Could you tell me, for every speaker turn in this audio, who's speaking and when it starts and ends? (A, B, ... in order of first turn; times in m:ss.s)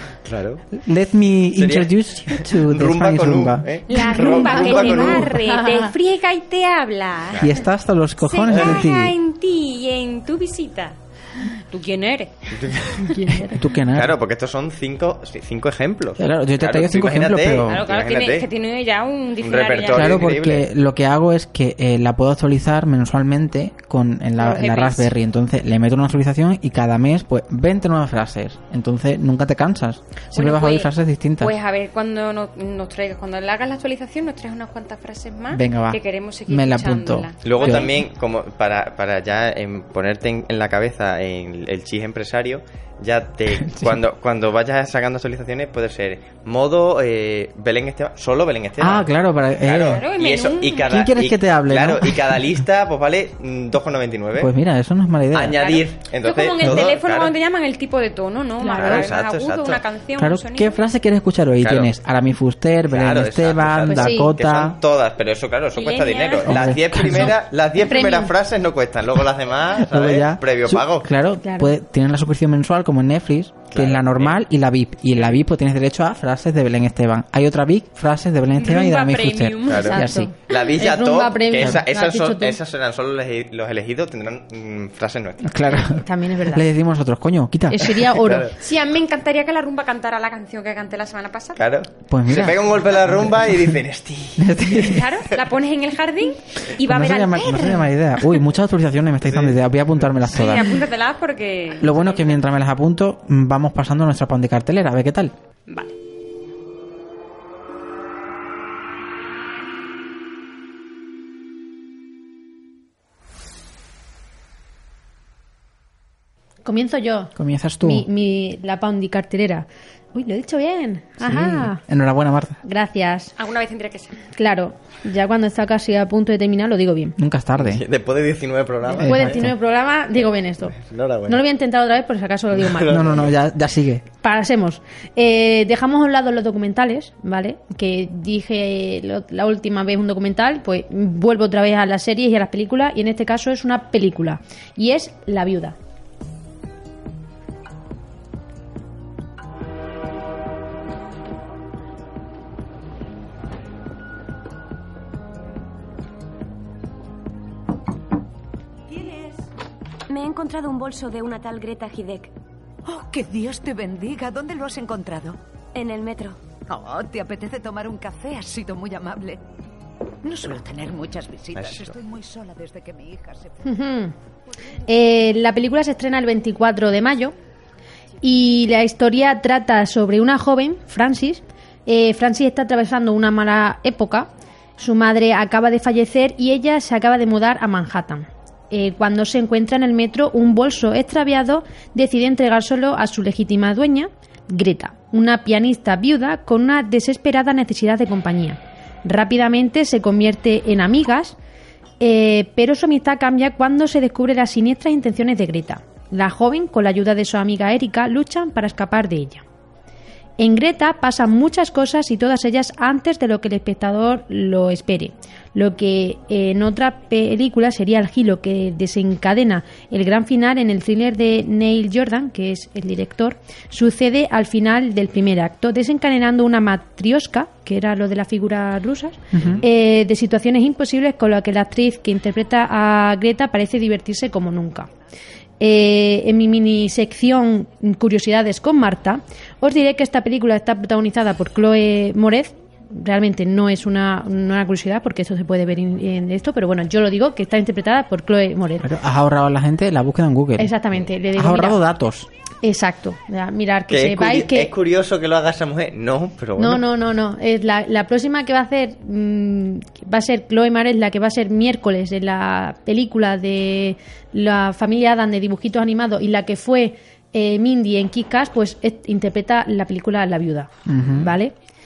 0:00.2-0:00.7 A
0:00.8-0:03.7 B
0:01.6-0:05.3 A
0:03.9-0:07.5 C
0:03.9-0:05.9 D
0:07.4-0:09.2 B
0:08.2-0:12.5 C
0:08.5-0:08.8 A
0:12.5-0:13.1 A
0:13.0-0:13.6 D
0:13.5-0:14.2 B
0:13.9-0:18.5 A
0:16.2-0:17.8 B
0:17.7-0:20.2 C
0:19.4-0:20.6 A
0:19.9-0:31.5 B
0:24.4-0:25.1 C
0:30.3-0:38.0 C
0:35.5-0:37.9 B
0:37.4-0:54.5 A
0:43.5-0:44.0 B
0:48.8-0:50.0 B
0:49.9-0:51.1 C
0:50.9-0:52.6 B
0:54.4-0:55.7 B
0:55.3-0:57.3 A
0:55.6-1:00.8 C
0:56.6-0:56.9 B
0:58.6-0:59.1 D
0:58.7-0:59.8 A
1:00.2-1:04.8 B
1:01.6-1:01.9 A
1:02.9-1:11.1 A
1:03.9-1:04.3 D
1:05.7-1:06.6 C
1:06.5-1:07.4 B
1:07.8-1:08.3 D
1:09.8-1:20.3 B
1:11.4-1:11.8 D
1:13.7-1:14.4 A
1:18.6-1:20.0 C
1:19.7-1:25.9 A
1:19.9-1:22.6 D
1:25.4-1:28.2 B
1:26.0-1:26.6 D
1:27.7-1:28.5 D
1:28.2-1:28.5 A
1:28.6-1:31.6 C
1:31.6-1:34.6 A
1:32.1-1:33.8 B
1:34.4-1:35.1 B
1:34.8-1:38.3 C
1:36.8-1:40.8 B
1:39.2-1:40.3 A
1:40.3-1:42.4 C
1:41.8-1:45.4 B
1:45.7-1:45.9 C
1:56.6-2:01.8 D
1:57.4-1:58.1 B
2:01.2-2:02.6 B
2:02.6-2:03.3 D
2:03.4-2:04.2 C
2:04.4-2:07.2 D
2:07.2-2:07.8 B
2:07.6-2:09.4 A
2:09.0-2:09.5 B
2:09.0-2:13.3 D
2:10.8-2:11.4 A
2:12.5-2:13.4 A
2:12.9-2:14.0 B
2:14.2-2:25.8 D
2:40.1-2:42.3 E
2:42.8-2:45.4 F
2:45.7-2:46.4 E
2:46.7-2:49.4 F
2:50.2-2:53.8 F
2:51.5-2:52.0 A
2:53.6-2:54.1 D
2:54.9-2:57.4 D
2:58.2-3:21.4 D
3:22.0-3:29.4 D
3:30.4-3:54.9 D
3:49.3-3:49.6 B
3:55.6-4:08.9 D
4:08.8-4:12.3 B
4:10.6-4:11.8 D
4:12.6-4:14.7 D
4:13.9-4:16.8 A
4:16.6-4:31.5 D
4:30.9-4:31.3 B